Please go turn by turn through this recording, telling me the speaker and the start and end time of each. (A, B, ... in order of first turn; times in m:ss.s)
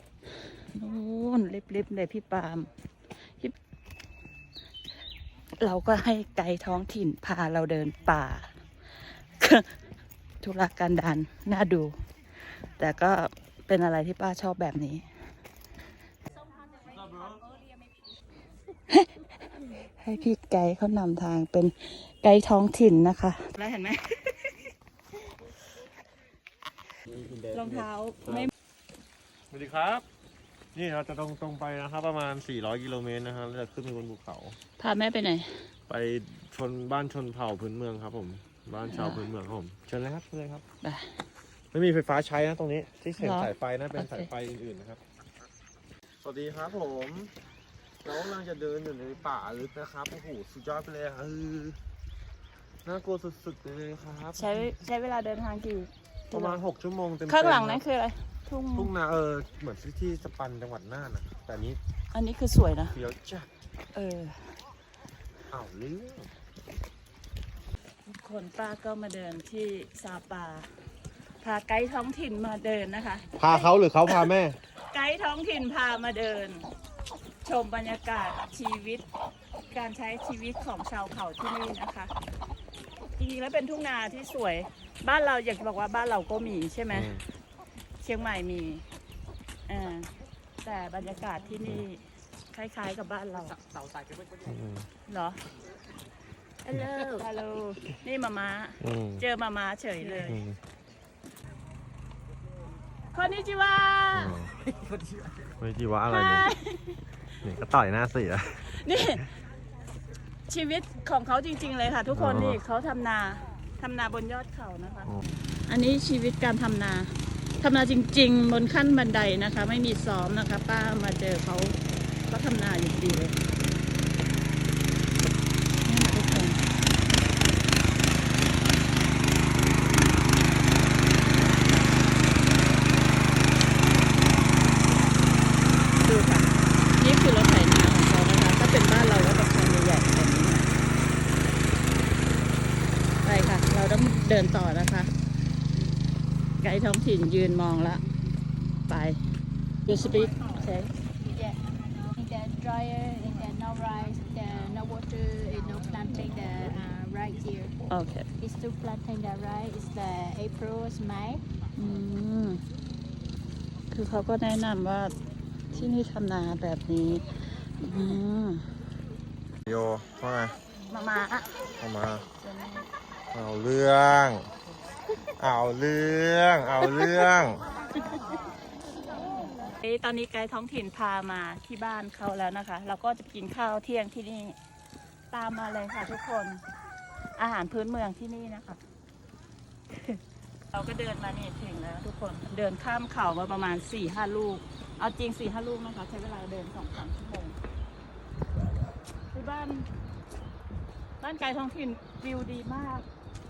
0:00.5-0:02.7 A
0:03.2-0:03.6 A
0:05.6-0:09.8 A
0:10.4-0:15.1 A
0:18.9-0:24.7 A
0:27.2-0:27.7 B
0:27.5-0:28.5 A
0:29.5-0:30.0 B
0:30.7-0:34.6 B
0:34.8-0:35.7 A
0:35.9-0:40.6 B
0:38.9-0:39.3 A
0:40.8-0:41.2 A
0:41.7-0:45.0 B
0:43.2-0:44.3 A
0:46.2-0:47.3 B
0:48.0-0:51.8 B
0:52.8-0:54.7 B
0:54.3-0:56.6 A
0:56.3-0:57.8 B
0:57.3-0:58.9 A
0:58.8-1:01.8 B
1:02.1-1:03.0 A
1:02.9-1:03.5 B
1:03.9-1:04.5 A
1:05.5-1:06.3 B
1:08.1-1:10.8 A
1:11.4-1:16.7 A
1:13.4-1:14.6 B
1:17.4-1:19.0 A
1:19.7-1:22.1 A
1:23.2-1:27.2 A
1:26.9-1:27.2 B
1:28.0-1:28.8 A
1:29.7-1:30.1 A
1:30.6-1:33.6 A
1:34.4-1:34.9 B
1:35.1-1:35.4 A
1:36.7-1:40.4 A
1:38.8-1:39.2 B
1:40.3-1:40.6 B
1:43.1-1:44.4 A
1:44.1-1:44.5 B
1:45.6-1:46.5 B
1:46.1-1:47.0 A
1:47.4-1:48.7 B
1:48.6-1:49.3 A
1:50.5-2:01.8 A
1:52.1-1:52.6 B
2:02.3-2:03.4 A
2:05.9-2:06.6 A
2:16.0-2:20.7 A
2:23.2-2:25.1 A
2:26.6-2:28.0 A
2:28.9-2:29.2 A
2:29.9-2:30.9 A
2:31.2-2:31.6 C
2:32.2-2:37.8 C
2:37.9-2:38.3 A
2:38.4-2:41.4 C
2:41.8-2:42.6 A
2:43.9-2:45.1 A
2:45.7-2:48.7 A
2:49.7-2:50.6 B
2:50.9-2:51.7 A
2:51.8-2:52.2 B
2:52.4-2:52.9 A
2:53.3-2:54.5 B
2:55.4-2:57.6 B
2:59.6-3:04.6 A
3:05.3-3:06.6 A
3:07.4-3:08.8 A
3:10.7-3:17.6 A
3:19.3-3:19.9 A
3:21.2-3:23.1 A